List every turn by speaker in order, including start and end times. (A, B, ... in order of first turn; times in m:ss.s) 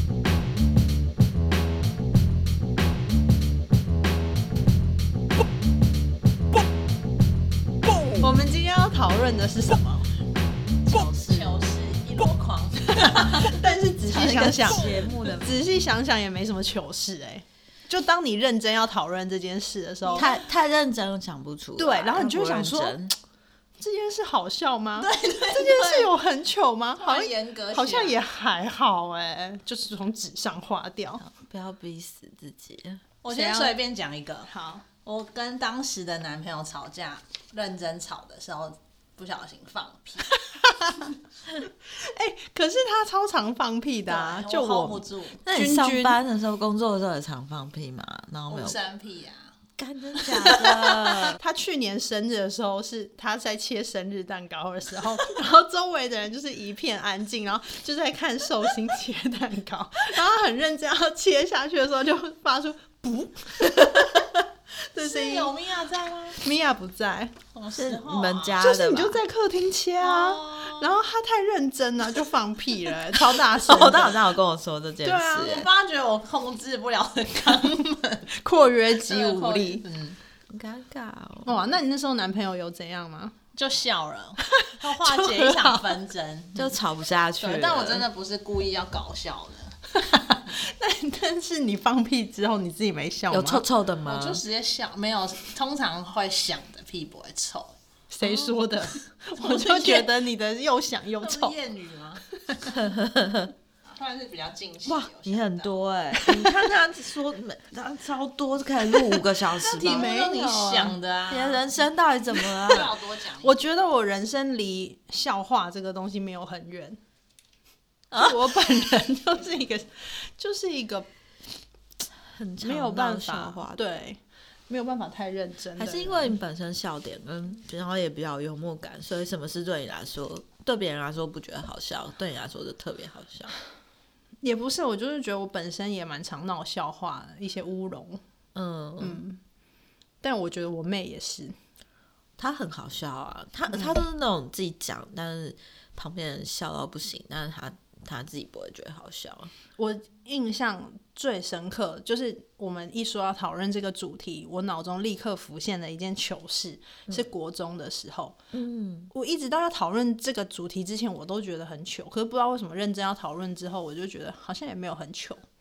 0:08.2-0:10.1 A
0:10.9-0:13.6 B
0:11.0-0:11.4 C
0:13.0-0:20.4 A
0:14.1-0:15.6 C
0:20.1-0:23.2 C
0:21.8-0:23.0 A
0:23.8-0:31.2 A
0:25.0-0:26.1 B
0:27.0-0:28.2 B
0:31.2-0:33.0 C
0:33.2-0:34.5 B
0:33.3-0:33.8 A
0:34.5-0:34.8 A
0:35.0-0:40.4 B
0:40.4-0:46.2 A
0:44.1-0:45.4 B
0:45.4-0:48.8 C
0:48.5-0:49.6 B
0:49.8-0:51.4 C
0:50.3-0:50.6 B
0:50.4-1:05.6 A
1:05.0-1:06.4 B
1:06.4-1:07.4 A
1:07.5-1:08.6 B
1:07.8-1:09.2 C
1:08.6-1:14.2 A
1:10.0-1:11.0 B
1:13.5-1:15.7 C
1:15.0-1:15.6 A
1:15.3-1:18.3 B
1:17.5-1:19.8 A
1:19.0-1:20.2 B
1:20.5-1:21.6 C
1:21.4-1:23.4 A
1:23.6-1:26.8 B
1:24.5-1:26.0 A
1:26.6-1:28.0 C
1:27.4-1:29.8 B
1:30.0-1:33.6 A
1:33.3-1:34.4 C
1:34.0-1:37.8 B
1:38.1-1:41.6 A
1:39.4-1:40.1 B
1:41.2-1:42.3 B
1:42.7-1:43.5 C
1:43.8-1:45.7 B
1:44.9-1:50.2 C
1:46.2-1:46.6 A
1:49.0-1:51.0 A
1:49.6-1:51.6 B
1:51.3-1:52.9 C
1:52.6-1:53.6 B
1:53.4-1:57.0 A
1:58.1-2:01.1 A
2:02.4-2:03.8 C
2:02.6-2:06.4 A
2:05.8-2:13.5 C
2:14.4-2:18.2 A
2:18.6-2:19.2 C
2:19.0-2:19.4 A
2:20.2-2:21.6 A
2:22.4-2:29.5 C
2:23.7-2:24.0 A
2:29.8-2:38.4 A
2:38.5-2:39.1 C
2:39.1-2:45.4 A